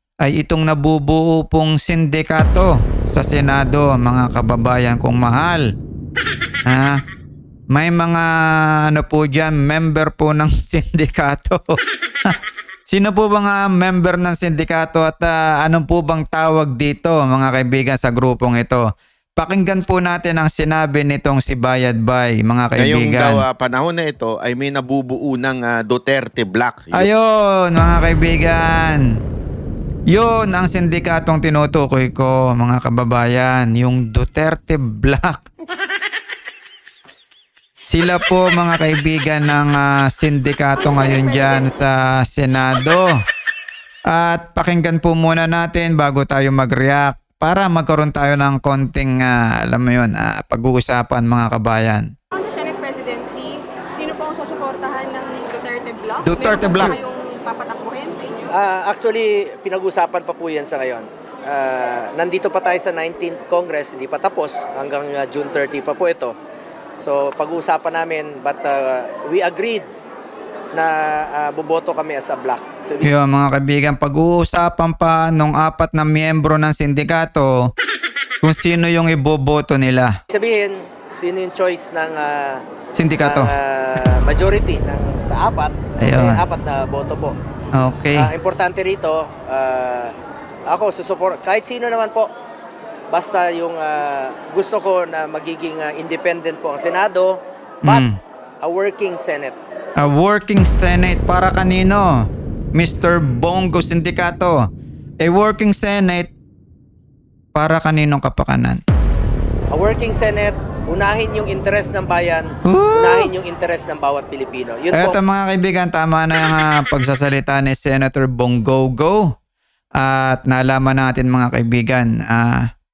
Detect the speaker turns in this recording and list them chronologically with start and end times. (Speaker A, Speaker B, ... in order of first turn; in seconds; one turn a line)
Speaker A: 0.2-5.7
Speaker A: 6.7-7.0
Speaker A: 7.7-8.3
Speaker A: 8.9-12.4
Speaker A: 12.9-18.9
Speaker A: 19.4-23.4
Speaker B: 22.8-27.1
Speaker A: 26.9-29.1
Speaker A: 30.1-35.4
Speaker A: 37.9-43.1
Speaker C: 40.9-41.2
Speaker A: 44.1-52.1
Speaker C: 52.3-58.5
Speaker A: 56.2-57.0
Speaker D: 58.5-66.3
Speaker D: 67.0-69.9
Speaker D: 70.7-73.1
Speaker A: 73.0-77.7
Speaker A: 78.4-80.1
Speaker D: 80.3-82.6
Speaker A: 82.9-83.5
Speaker D: 83.2-87.4
Speaker A: 86.0-86.4
Speaker A: 87.8-88.3
Speaker D: 88.1-90.1
Speaker D: 90.7-92.3
Speaker D: 93.1-98.0
Speaker A: 97.8-98.2
Speaker D: 98.6-99.6
Speaker A: 100.0-104.6
Speaker A: 105.2-106.3
Speaker A: 107.5-108.8
Speaker D: 109.7-115.2
Speaker A: 112.6-113.3
Speaker A: 114.9-119.3
Speaker A: 120.0-122.7